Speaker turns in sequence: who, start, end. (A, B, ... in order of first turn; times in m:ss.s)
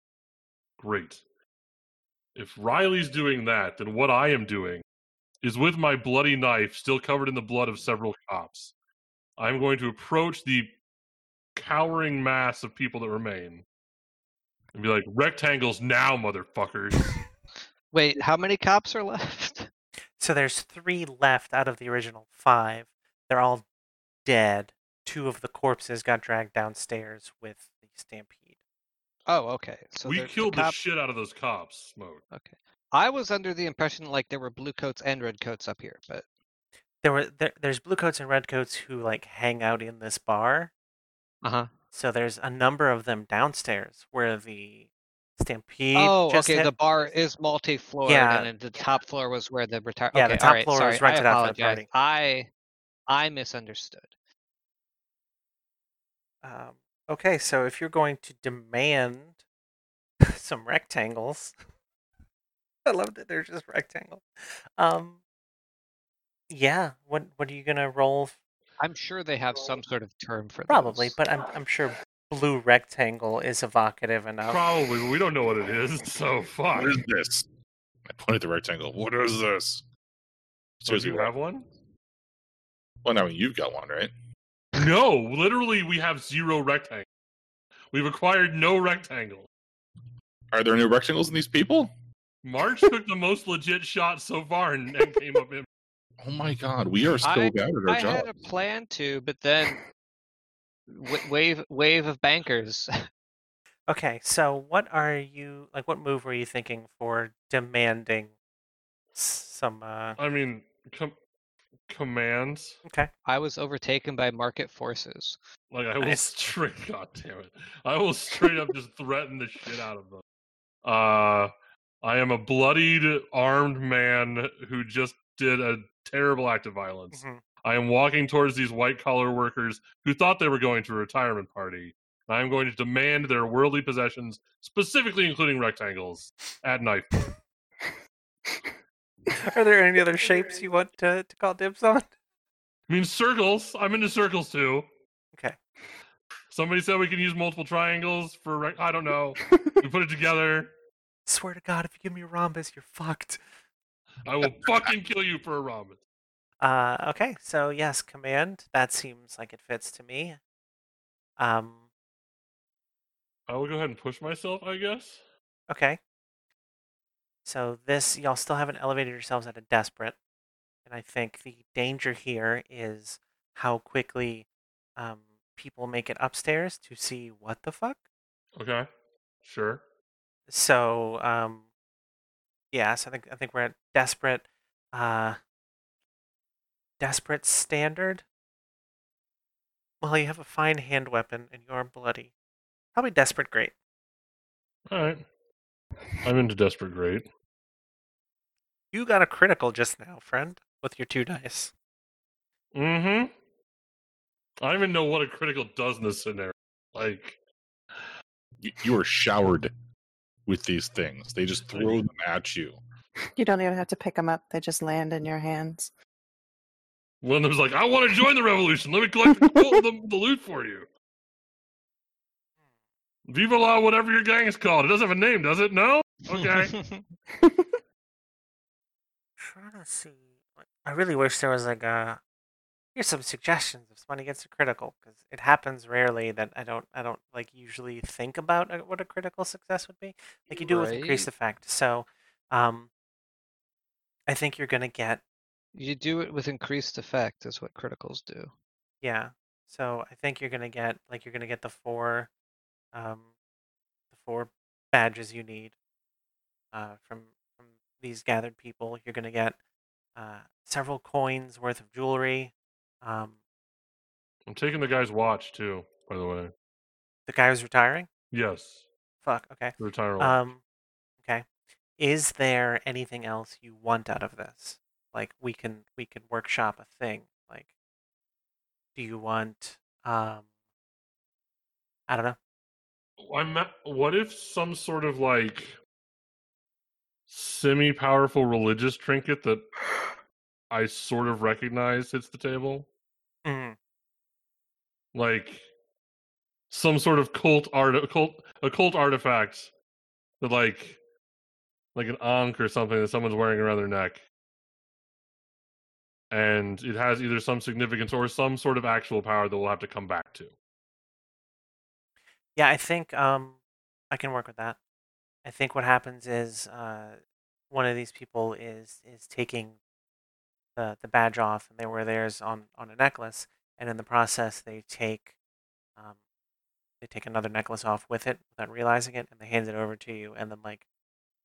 0:00.8-0:01.2 A
0:02.3-0:04.8 A
0:05.4-0:08.7 A
0:09.4-0:10.8 A
0:11.6-0:13.6 A
0:14.7-0:17.2 A
0:17.9-0:19.7 B
0:20.2-0:23.6 C
0:24.2-0:28.5 C
0:29.3-0:30.8 B
0:30.0-0:32.2 A
0:32.3-0:36.2 B
0:37.0-0:40.7 C
0:41.4-0:41.7 B
0:41.9-0:44.9 C
0:45.4-0:46.7 C
0:45.9-0:52.5 B
0:48.0-0:48.5 C
0:50.1-0:51.9 C
0:53.1-0:54.1 B
0:56.4-0:59.4 C
1:00.3-1:01.5 C
1:02.9-1:04.2 C
1:04.8-1:05.2 C
1:06.5-1:08.4 C
1:08.8-1:11.2 B
1:10.7-1:14.6 C
1:14.4-1:17.0 A
1:16.7-1:17.4 D
1:18.0-1:19.9 D
1:20.8-1:21.3 D
1:20.9-1:21.6 A
1:23.0-1:24.1 D
1:24.7-1:27.0 A
1:27.9-1:29.5 A
1:30.5-1:31.9 D
1:32.4-1:35.6 A
1:36.2-1:38.4 D
1:37.2-1:39.8 B
1:40.9-1:42.9 B
1:43.9-1:48.3 C
1:49.1-1:50.2 C
1:50.2-1:51.2 A
1:51.9-1:52.8 A
1:53.3-1:55.4 B
1:55.7-2:00.2 A
1:56.0-1:56.3 C
2:00.8-2:17.3 A
2:07.1-2:07.4 C
2:19.4-2:22.1 C
2:22.9-2:24.9 A
2:26.5-2:30.7 A
2:31.2-2:33.4 C
2:34.2-2:36.0 A
2:34.4-2:34.9 D
2:36.6-2:40.4 C
2:41.4-2:41.8 C
2:43.5-2:45.2 A
2:45.7-2:46.0 C
2:47.4-2:50.2 C
2:50.9-2:58.0 C
2:58.6-2:58.9 A
2:59.4-2:59.8 A
3:00.5-3:01.6 C
3:02.7-3:05.4 C
3:07.0-3:08.2 C
3:10.0-3:12.3 C
3:12.9-3:13.7 C
3:14.9-3:15.2 A
3:16.2-3:17.2 A
3:18.9-3:21.7 C
3:22.7-3:23.3 A
3:24.6-3:27.4 A
3:28.6-3:29.7 D
3:30.4-3:32.8 D
3:31.7-3:32.1 A
3:33.3-3:35.9 E
3:37.2-3:40.9 A
3:39.3-3:39.7 E
3:43.2-3:46.8 A
3:46.3-3:47.0 B
3:47.3-3:47.7 E
3:49.4-3:50.3 C
3:50.8-3:52.2 C
3:53.0-4:02.9 C
4:00.5-4:01.3 B
4:04.3-4:05.2 C
4:05.7-4:08.5 B
4:09.0-4:12.3 C
4:12.9-4:13.3 C
4:14.1-4:15.7 C
4:16.7-4:19.6 C
4:20.1-4:23.4 C
4:24.5-4:26.5 A
4:27.3-4:28.1 C
4:28.3-4:28.8 A
4:29.2-4:30.6 C
4:29.8-4:30.4 A
4:32.0-4:37.7 C
4:38.9-4:40.4 C
4:42.1-4:42.4 C
4:43.2-4:45.8 A
4:47.3-4:49.7 A
4:50.7-4:52.9 A
4:53.4-4:53.8 C
4:55.1-4:55.7 A
4:56.7-4:59.7 A
5:00.4-5:01.0 A
5:01.9-5:04.2 A
5:06.3-5:10.5 A
5:12.6-5:13.6 C
5:14.1-5:14.8 C
5:15.4-5:19.8 C
5:20.8-5:25.3 C
5:27.0-5:30.8 C